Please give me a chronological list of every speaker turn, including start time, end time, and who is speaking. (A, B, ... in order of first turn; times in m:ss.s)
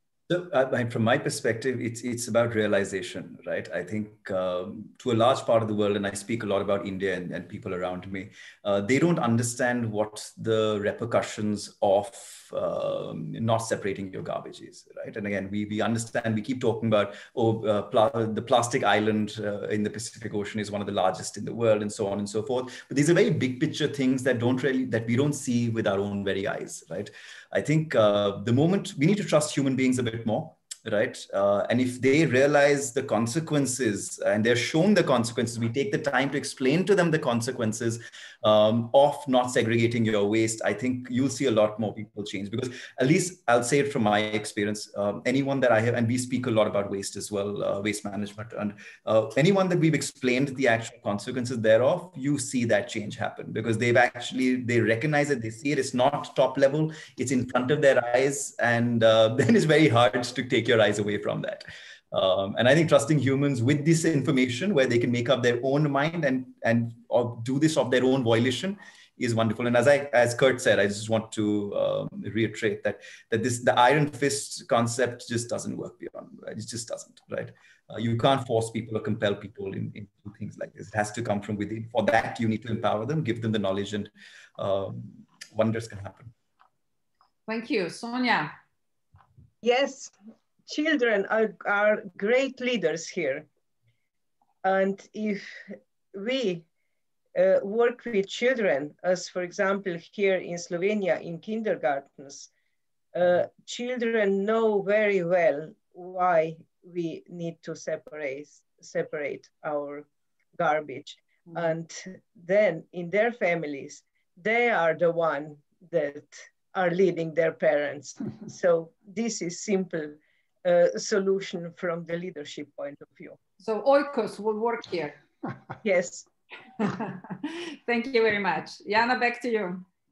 0:00.3-1:26.3 A
1:27.5-1:28.5 B
1:29.6-1:30.1 C
1:30.7-1:33.4 C
1:34.6-1:36.6 C
1:37.4-1:42.5 C
1:43.1-1:50.1 C
1:50.6-2:03.4 C
2:03.6-2:05.2 B
2:05.8-2:06.3 C
2:06.8-2:09.8 B